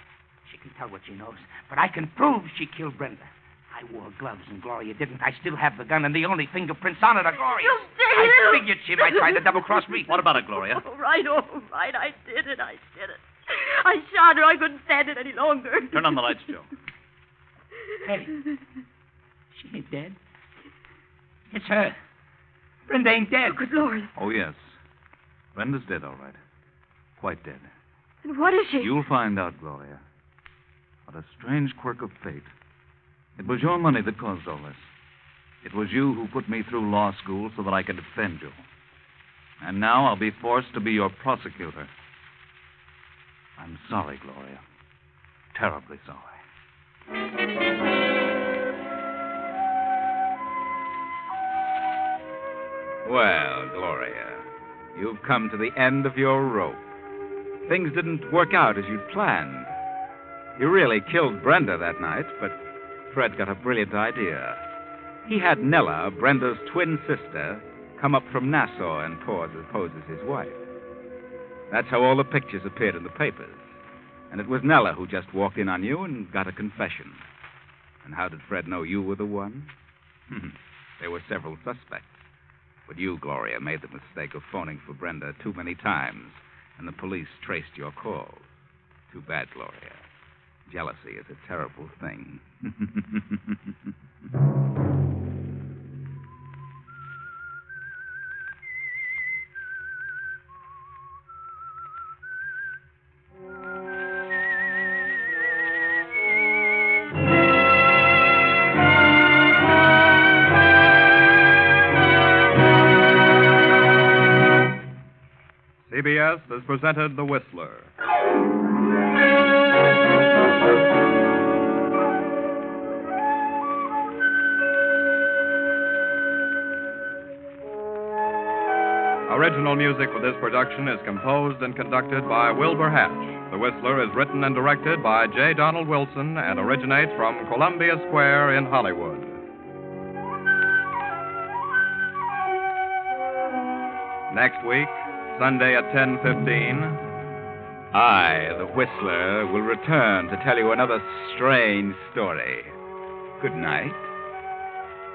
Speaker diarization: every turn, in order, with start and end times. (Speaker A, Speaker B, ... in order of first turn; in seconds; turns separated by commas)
Speaker A: 0.5-10.2, Speaker B: 7.5-9.5, Speaker C: 10.1-10.8, Speaker B: 10.1-16.5, Speaker C: 15.9-16.7, Speaker A: 18.1-18.4, Speaker A: 19.5-20.2, Speaker A: 21.5-21.9, Speaker A: 22.9-23.6, Speaker B: 23.5-24.1, Speaker C: 24.2-24.7, Speaker C: 25.6-26.4, Speaker C: 27.2-27.7, Speaker B: 28.2-29.0, Speaker C: 28.8-30.0, Speaker C: 31.1-32.5, Speaker C: 33.4-34.9, Speaker C: 35.6-38.6, Speaker C: 39.6-41.9, Speaker C: 43.6-44.6, Speaker C: 45.5-46.4, Speaker D: 53.0-56.8, Speaker D: 57.7-59.7, Speaker D: 60.6-62.6, Speaker D: 63.1-64.6, Speaker D: 65.3-70.6, Speaker D: 71.7-73.7, Speaker D: 74.3-77.2, Speaker D: 78.0-79.7, Speaker D: 80.3-82.3, Speaker D: 82.9-88.5, Speaker D: 89.1-90.0, Speaker D: 90.7-93.4, Speaker E: 115.8-117.9, Speaker E: 129.3-139.4, Speaker E: 144.3-147.0, Speaker D: 147.9-152.7, Speaker D: 153.4-154.1